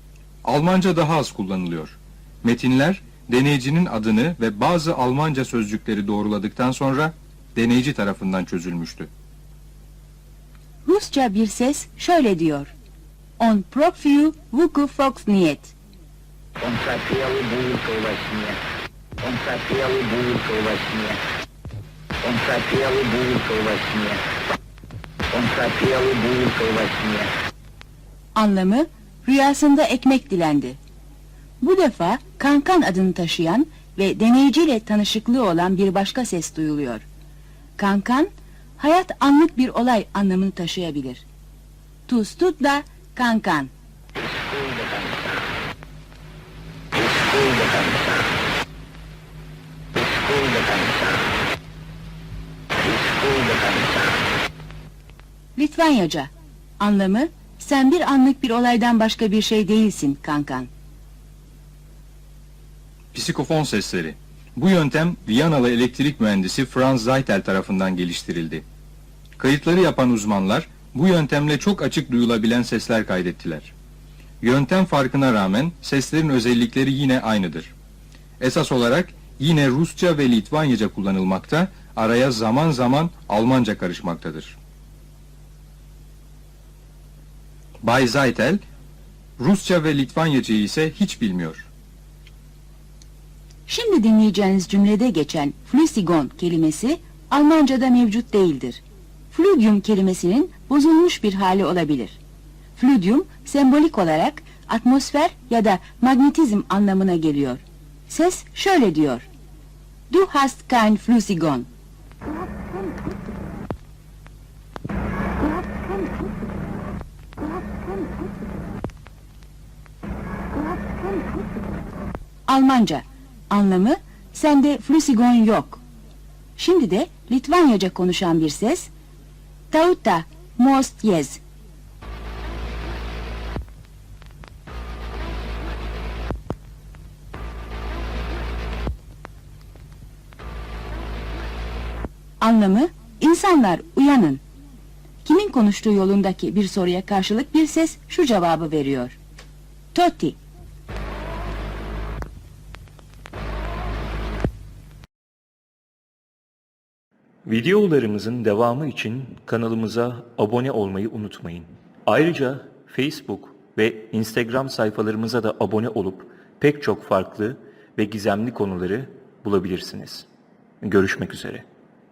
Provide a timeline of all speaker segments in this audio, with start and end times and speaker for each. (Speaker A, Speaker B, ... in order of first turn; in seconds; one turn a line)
Speaker A: 0.4-9.1
Speaker B: 10.8-12.7
Speaker B: 13.4-15.7
Speaker C: 16.6-18.6
Speaker C: 19.2-21.2
Speaker C: 22.2-24.2
Speaker C: 25.3-27.3
Speaker B: 28.4-30.8
Speaker B: 31.6-37.0
Speaker B: 37.8-41.2
Speaker B: 42.1-43.7
Speaker C: 44.1-45.4
Speaker C: 46.9-48.2
Speaker C: 49.9-51.2
Speaker C: 52.8-54.2
Speaker B: 55.6-60.7
Speaker A: 63.1-68.6
Speaker A: 69.4-73.7
Speaker A: 74.4-77.7
Speaker A: 78.4-84.6
Speaker A: 87.8-88.6
Speaker A: 89.4-91.7
Speaker B: 93.7-102.2
Speaker B: 102.8-109.2
Speaker B: 110.1-111.7
Speaker B: 122.5-125.8
Speaker B: 126.6-128.9
Speaker B: 129.7-131.4
Speaker B: 142.4-144.4
Speaker B: 145.2-149.2
Speaker B: 149.9-150.4
Speaker D: 157.4-170.3
Speaker D: 170.8-171.7